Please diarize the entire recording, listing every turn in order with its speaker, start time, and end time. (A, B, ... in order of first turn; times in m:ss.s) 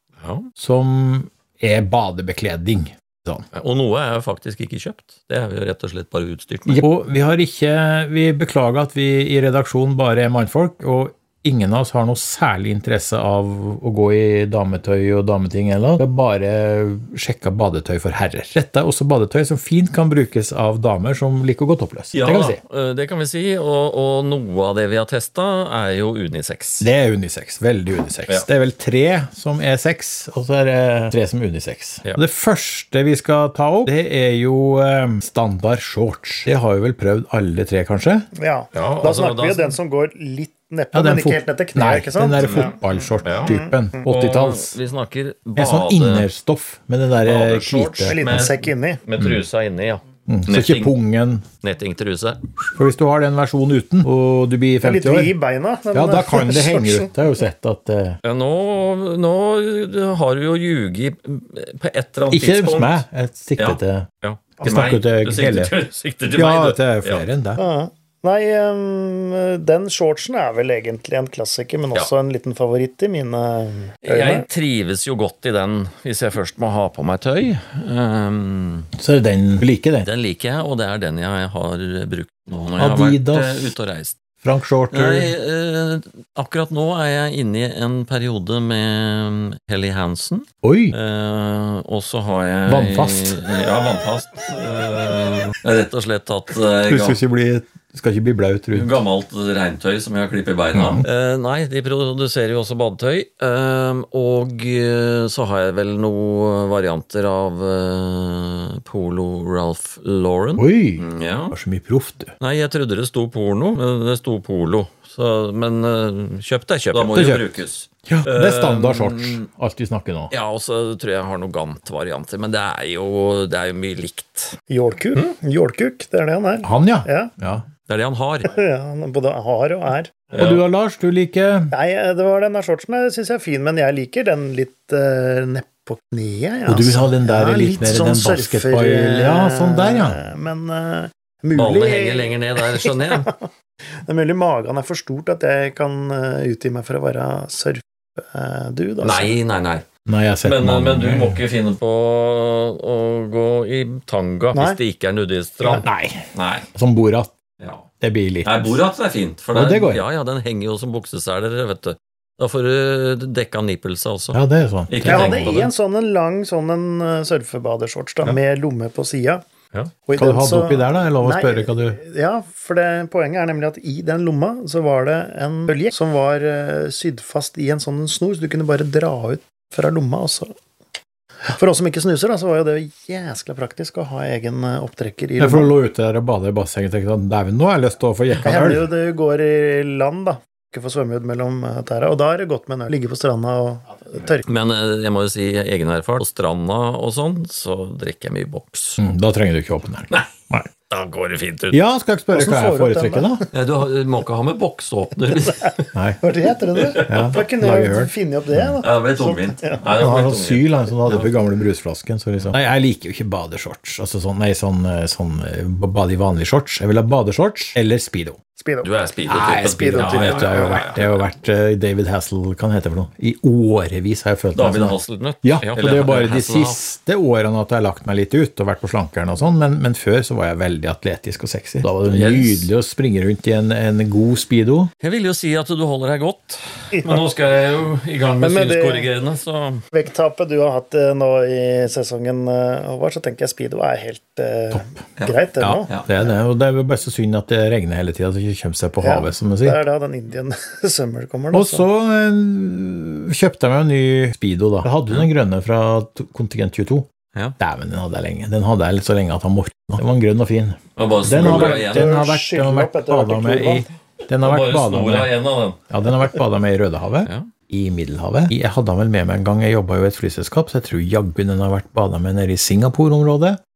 0:00.2-0:00.5 A
0:00.6-0:03.4 B
0:03.5-0:06.8 A
0:06.7-0:22.6 B
0:22.1-0:26.9 A
0:26.8-0:38.3 B
0:38.3-0:42.7 C
0:38.7-0:39.8 A
0:40.9-0:44.7 B
0:42.4-0:42.7 A
0:43.2-0:46.3 A
0:43.4-0:44.0 C
0:45.6-0:48.4 B
0:47.2-0:50.9 A
0:48.0-0:49.0 C
0:50.3-0:51.4 B
0:51.6-0:52.4 A
0:52.6-0:55.3 B
0:54.8-0:57.1 C
0:55.9-0:58.2 B
0:58.2-1:03.0 A
1:02.3-1:04.1 B
1:03.6-1:07.2 A
1:04.6-1:05.7 B
1:06.3-1:07.6 B
1:07.6-1:14.4 C
1:14.0-1:18.9 A
1:19.0-1:20.1 B
1:20.0-1:24.2 A
1:22.8-1:23.7 B
1:24.4-1:25.3 B
1:24.9-1:37.2 A
1:30.6-1:30.9 B
1:32.6-1:33.4 B
1:36.8-1:38.9 B
1:38.7-1:51.5 A
1:40.7-1:41.0 B
1:50.6-1:52.3 B
1:52.4-1:59.4 A
1:56.9-2:00.3 B
2:00.3-2:04.6 A
2:04.7-2:07.3 C
2:06.6-2:07.6 B
2:07.9-2:08.5 A
2:08.4-2:10.3 C
2:10.3-2:10.6 A
2:10.4-2:11.7 B
2:11.7-2:23.4 C
2:16.6-2:20.2 B
2:21.5-2:23.3 A
2:24.0-2:29.3 C
2:29.0-2:29.8 A
2:30.0-2:31.4 B
2:30.4-2:36.7 A
2:34.5-2:34.8 C
2:35.8-2:37.3 B
2:37.6-2:37.8 A
2:38.0-2:38.8 B
2:38.4-2:45.7 A
2:39.5-2:40.0 B
2:44.3-2:45.7 B
2:45.0-2:49.4 C
2:50.1-3:00.5 C
2:50.2-2:52.0 B
3:01.5-3:05.7 C
3:05.4-3:08.9 B
3:08.4-3:14.5 C
3:14.4-3:19.0 A
3:19.0-3:20.7 B
3:20.1-3:21.8 A
3:21.7-3:23.4 B
3:22.3-3:23.4 C
3:23.5-3:25.9 A
3:25.9-3:26.2 B
3:26.2-3:29.8 C
3:26.8-3:27.4 A
3:27.0-3:28.8 B
3:28.8-3:31.3 A
3:29.9-3:38.4 B
3:38.6-3:38.9 C
3:38.8-3:41.2 A
3:39.3-3:54.9 B
3:39.5-3:40.9 C
3:44.5-3:46.8 A
3:52.0-3:52.7 A
3:55.0-3:59.8 A
3:58.4-3:59.1 C
3:59.9-4:05.9 C
4:05.6-4:09.8 B
4:09.0-4:11.8 C
4:11.5-4:17.1 B
4:17.6-4:25.3 B
4:21.0-4:22.1 A
4:21.3-4:23.8 C
4:24.4-4:25.8 A
4:25.9-4:33.6 B